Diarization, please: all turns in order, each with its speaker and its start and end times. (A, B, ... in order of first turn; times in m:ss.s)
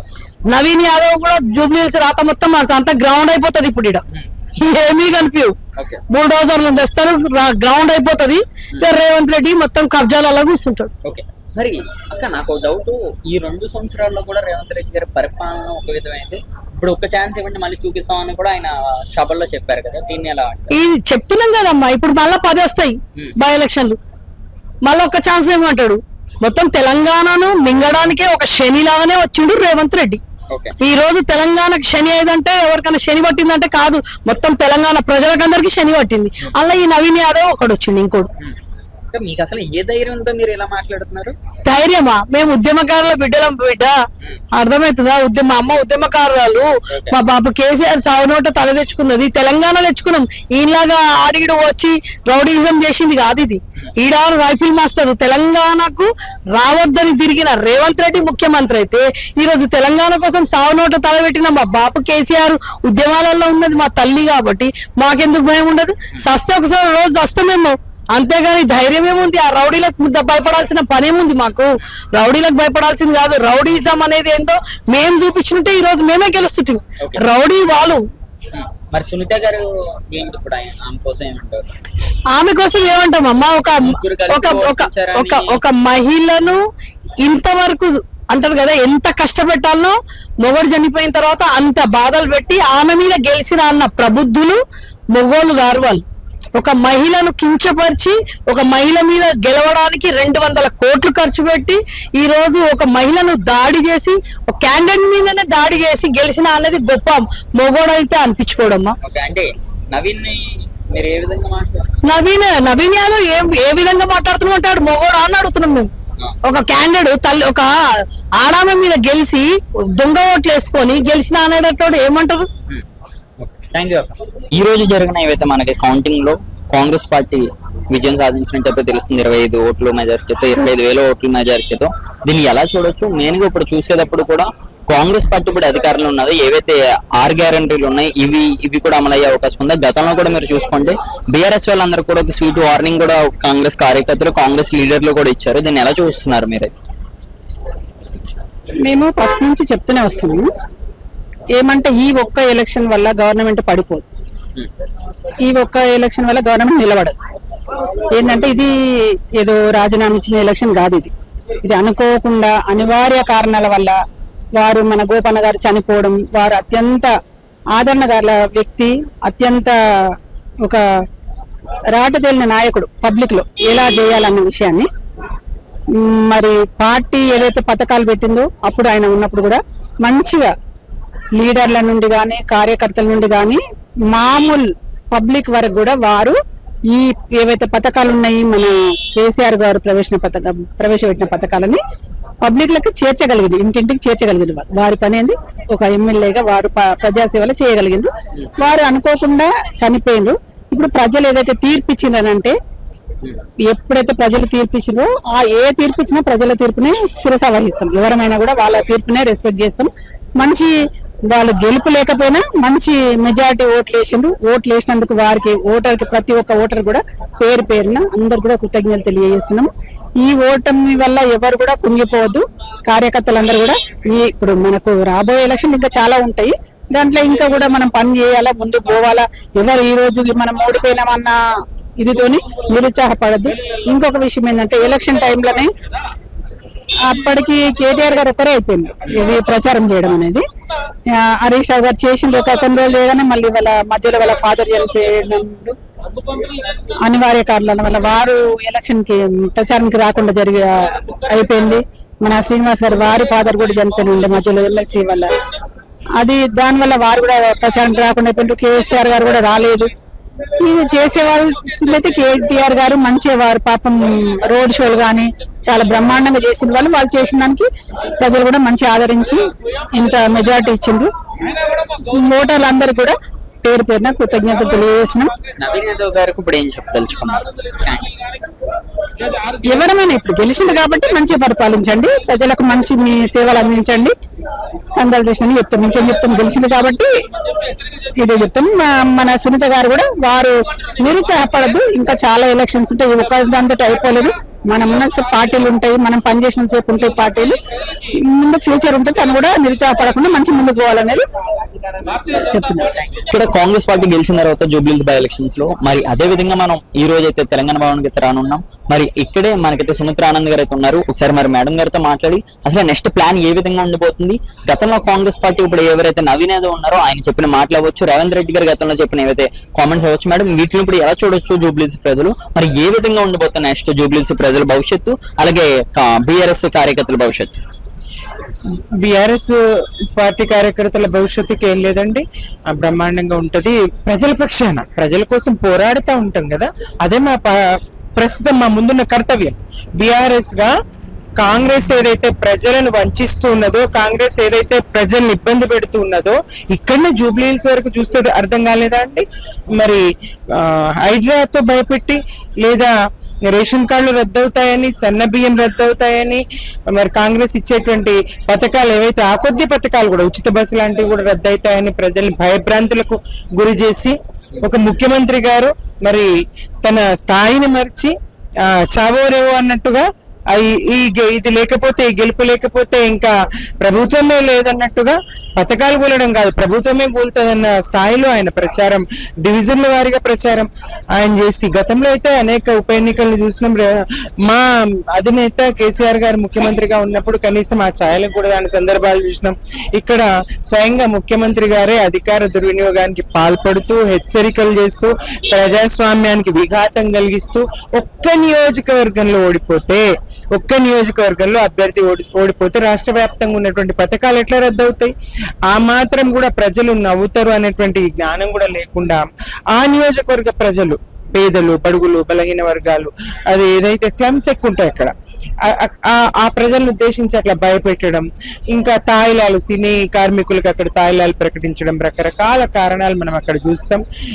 0:00.5-0:04.0 A
0:04.6-0:05.6 A
0:06.1-0:10.9 A
0:11.0-0:20.8 B
0:20.7-0:24.0 A
0:24.8-0:30.2 A
0:30.5-0:30.8 B
0:30.8-0:38.3 A
0:39.1-0:41.4 B
0:41.6-0:43.9 A
0:44.6-1:18.0 A
0:46.9-0:47.2 B
1:18.5-1:21.7 B
1:22.3-1:26.6 A
1:23.8-1:25.6 B
1:27.2-1:34.6 A
1:35.1-1:36.0 A
1:36.6-1:49.0 A
1:49.0-1:51.9 B
1:52.0-1:55.9 A
1:56.4-2:02.5 A
2:03.4-2:26.8 B
2:28.8-2:30.5 C
2:31.6-2:34.0 C
2:35.4-2:37.2 C
2:38.2-2:38.7 C
2:39.4-2:41.1 C
2:41.6-2:44.0 C
2:44.6-2:47.1 C
2:47.8-2:49.7 C
2:51.9-2:54.9 C
2:56.0-3:00.5 C
3:01.4-3:06.4 C
3:06.9-3:11.8 C
3:12.4-3:22.5 C
3:23.7-3:30.8 C
3:31.3-3:39.7 C
3:40.2-3:51.4 C
3:52.0-3:55.7 C
3:57.0-4:00.4 C
4:01.1-4:05.8 C
4:07.0-4:15.3 C
4:16.2-4:19.9 C
4:20.6-4:27.7 C
4:28.2-4:31.1 C
4:32.1-4:35.3 C
4:35.6-4:38.1 B
4:39.5-4:44.1 C
4:45.0-4:47.1 C
4:48.2-4:57.6 C
4:58.1-5:01.2 C
5:02.1-5:02.9 C
5:03.2-5:27.6 B
5:29.0-5:29.6 D
5:30.2-5:40.7 D
5:41.4-5:49.2 D
5:49.8-5:52.9 D
5:53.5-6:06.3 D
6:06.8-6:08.1 D
6:08.9-6:23.9 D
6:24.4-6:45.1 D
6:45.7-6:49.2 D
6:49.7-6:55.1 D
6:55.6-7:04.0 D